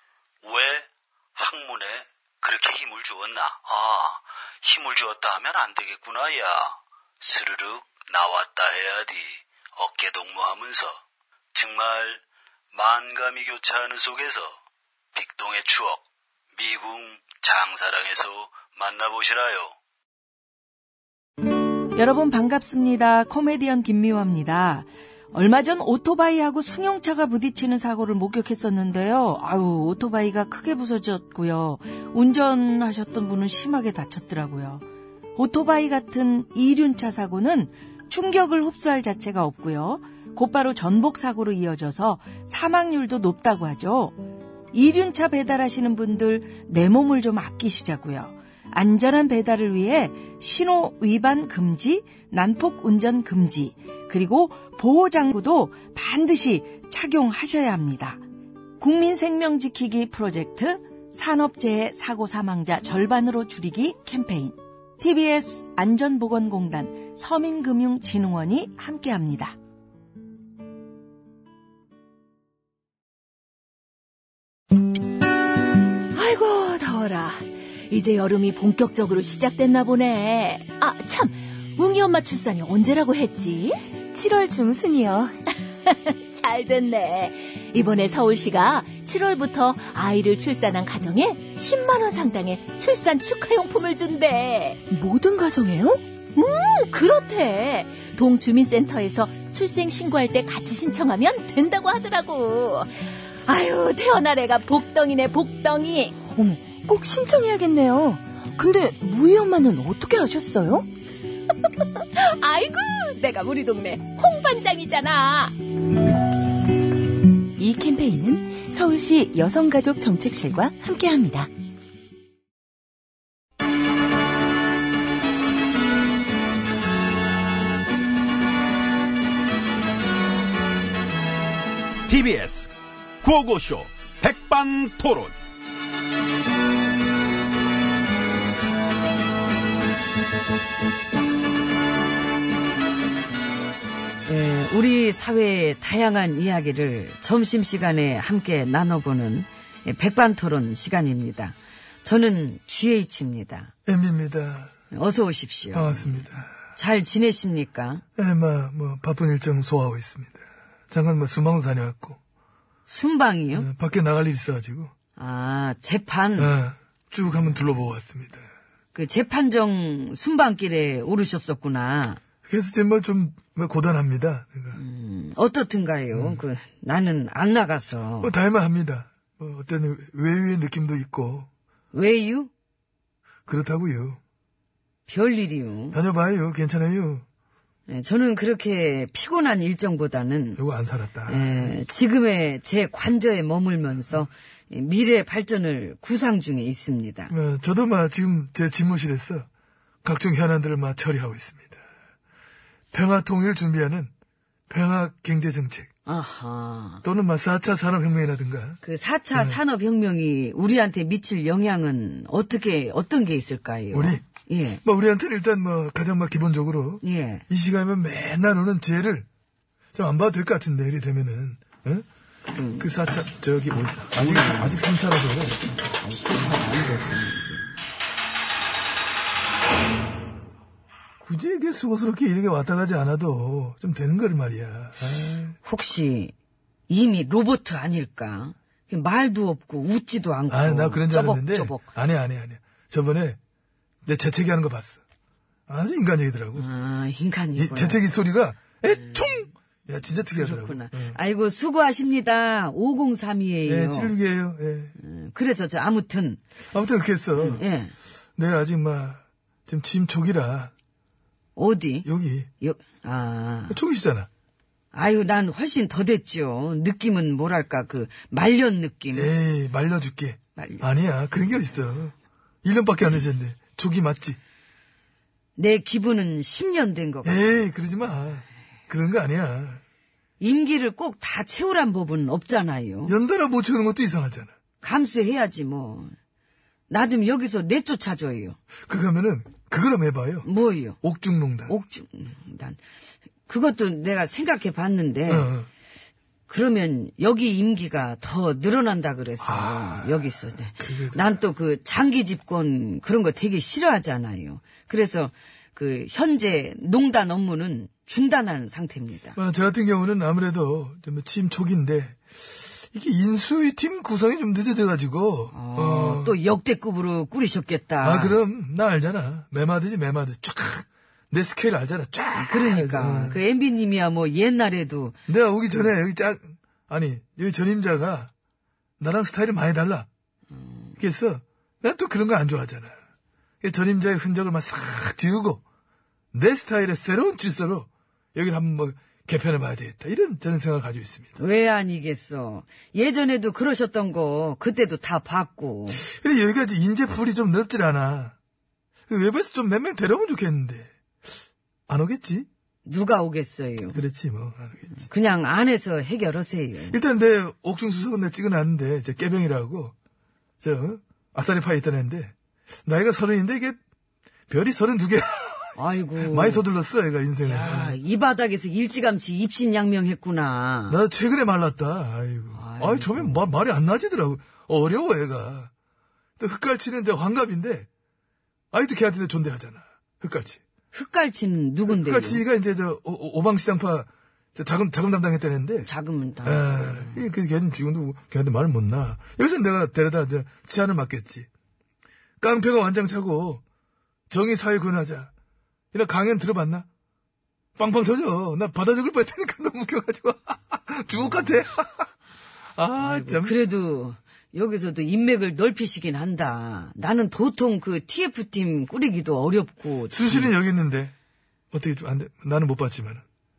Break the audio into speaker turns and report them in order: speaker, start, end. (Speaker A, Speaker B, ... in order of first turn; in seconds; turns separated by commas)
Speaker A: 0.4-11.0, Speaker A: 11.6-12.2, Speaker A: 12.7-14.6, Speaker A: 15.2-16.0, Speaker A: 16.6-19.7, Speaker B: 21.9-34.9, Speaker B: 35.4-44.2, Speaker B: 44.7-58.2, Speaker B: 58.8-69.5, Speaker C: 76.1-83.8, Speaker D: 84.1-85.3, Speaker C: 85.9-94.9, Speaker D: 94.9-96.0, Speaker C: 96.3-102.9, Speaker C: 103.5-106.2, Speaker D: 106.3-110.9, Speaker C: 112.2-115.5, Speaker D: 117.6-121.5, Speaker E: 132.1-135.3, Speaker F: 144.3-153.7, Speaker G: 153.9-154.7, Speaker F: 154.9-158.0, Speaker G: 155.7-156.5, Speaker G: 158.2-162.2, Speaker F: 162.9-163.7, Speaker G: 163.5-164.9, Speaker F: 165.2-166.5, Speaker G: 166.4-168.5, Speaker F: 168.9-172.2, Speaker G: 172.5-174.8, Speaker F: 174.7-178.3, Speaker G: 176.1-176.4, Speaker G: 178.2-181.5, Speaker F: 181.9-182.5, Speaker G: 183.5-184.2, Speaker F: 185.1-186.0, Speaker G: 185.9-187.2, Speaker F: 187.9-190.6, Speaker G: 190.6-191.8, Speaker F: 191.3-197.3, Speaker G: 197.3-199.5, Speaker G: 200.0-201.8, Speaker G: 202.9-204.1, Speaker G: 204.7-205.9, Speaker F: 206.1-207.0, Speaker G: 207.0-208.8, Speaker F: 208.8-214.8, Speaker G: 209.3-209.6, Speaker G: 213.9-214.2, Speaker G: 214.8-219.3, Speaker F: 217.0-217.4, Speaker G: 219.9-222.1, Speaker F: 222.5-222.9, Speaker G: 222.8-225.6, Speaker F: 224.2-224.8, Speaker F: 225.8-227.7, Speaker G: 231.2-235.6, Speaker F: 235.6-236.3, Speaker F: 236.9-241.9, Speaker G: 240.5-243.4, Speaker G: 244.1-245.0, Speaker G: 245.7-246.7, Speaker F: 246.6-248.0, Speaker G: 247.6-251.2, Speaker F: 248.9-249.5, Speaker F: 250.3-254.2, Speaker G: 253.7-254.9, Speaker F: 255.0-256.4, Speaker G: 256.7-257.6, Speaker F: 257.4-257.9, Speaker G: 258.4-260.7, Speaker F: 261.6-262.1, Speaker G: 262.0-262.5, Speaker F: 262.6-263.8, Speaker G: 263.7-264.3, Speaker F: 264.9-269.3, Speaker G: 269.1-274.4, Speaker F: 270.6-270.9, Speaker F: 275.6-277.6, Speaker G: 277.2-279.8, Speaker F: 280.4-283.1, Speaker G: 283.1-284.5, Speaker F: 284.8-286.1, Speaker F: 286.9-288.6, Speaker G: 288.9-290.5, Speaker F: 290.4-291.0, Speaker G: 291.0-291.7, Speaker F: 291.7-292.8, Speaker F: 293.5-295.5, Speaker G: 295.3-295.7, Speaker F: 296.5-309.4, Speaker G: 299.4-300.2, Speaker G: 300.8-301.4, Speaker G: 309.4-312.2, Speaker G: 312.7-316.4, Speaker F: 315.5-318.4, Speaker G: 318.0-323.4, Speaker F: 322.4-325.2, Speaker G: 325.3-328.3, Speaker G: 329.0-330.1, Speaker F: 330.6-331.0, Speaker G: 331.0-333.0, Speaker G: 333.6-335.6, Speaker G: 336.3-341.4, Speaker F: 341.4-346.0, Speaker G: 345.9-348.4, Speaker G: 349.1-350.9, Speaker G: 351.9-352.5, Speaker F: 352.9-354.0, Speaker G: 353.9-354.9, Speaker F: 355.0-357.0, Speaker G: 356.9-359.9, Speaker G: 360.6-362.3, Speaker G: 362.9-363.8, Speaker G: 364.5-368.0, Speaker F: 365.8-366.6, Speaker F: 367.4-371.0, Speaker G: 370.9-375.7, Speaker F: 372.5-373.5, Speaker G: 376.4-377.9, Speaker G: 378.7-380.6, Speaker F: 380.9-382.4, Speaker G: 381.9-385.9, Speaker F: 385.8-387.2, Speaker G: 386.4-391.5, Speaker G: 392.4-393.6, Speaker G: 394.3-395.3, Speaker G: 395.9-396.9, Speaker G: 397.8-402.1, Speaker F: 401.2-401.5, Speaker G: 402.8-403.6, Speaker F: 403.0-410.6, Speaker G: 410.1-411.1, Speaker G: 411.7-413.2